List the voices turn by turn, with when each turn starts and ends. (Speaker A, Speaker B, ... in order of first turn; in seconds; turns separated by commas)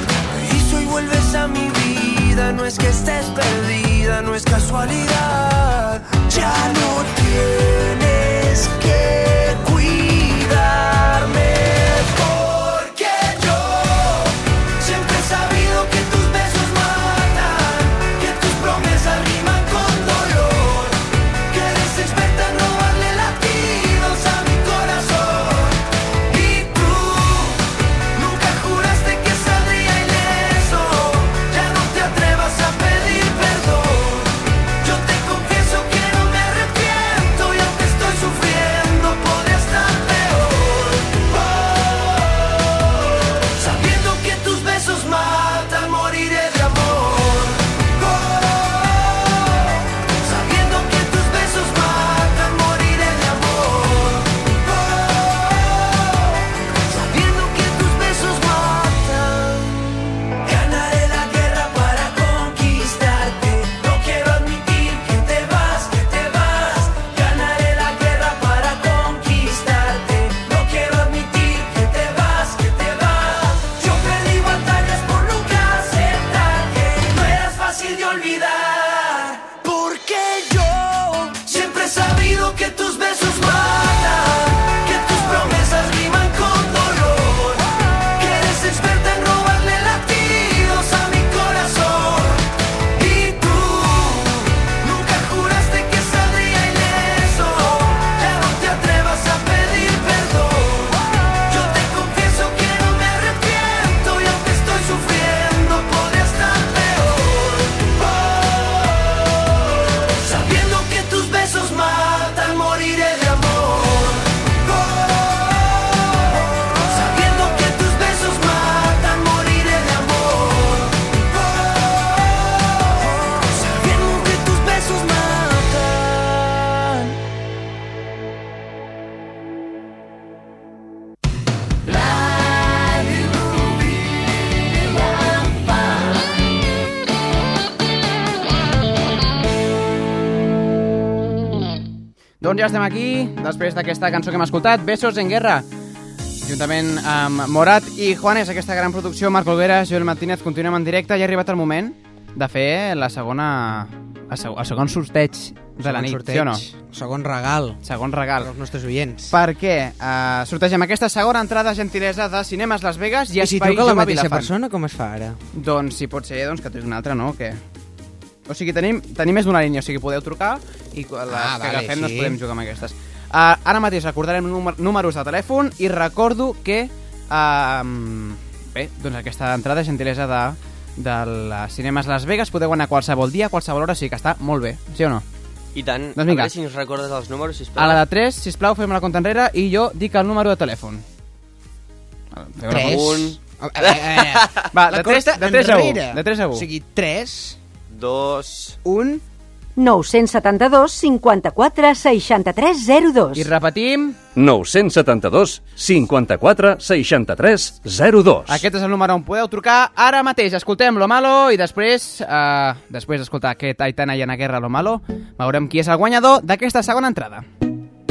Speaker A: 0.3-109.5, Speaker A: 110.1-127.1, Speaker A: 131.9-133.8, Speaker A: 134.9-135.4, Speaker B: 142.4-145.7, Speaker B: 146.4-156.7, Speaker C: 155.8-157.8, Speaker B: 157.8-158.5, Speaker C: 158.4-159.3, Speaker B: 159.3-164.5, Speaker C: 163.4-165.4, Speaker B: 165.5-167.6, Speaker B: 168.5-185.2, Speaker C: 171.3-172.4, Speaker D: 185.8-188.0, Speaker B: 186.2-186.5, Speaker B: 187.8-191.0, Speaker B: 192.3-193.3, Speaker C: 192.7-197.6, Speaker D: 192.7-194.7, Speaker B: 194.7-196.7, Speaker D: 197.9-198.8, Speaker C: 198.8-199.2, Speaker E: 199.8-203.5, Speaker B: 203.3-204.2, Speaker F: 204.4-208.7, Speaker B: 208.5-217.4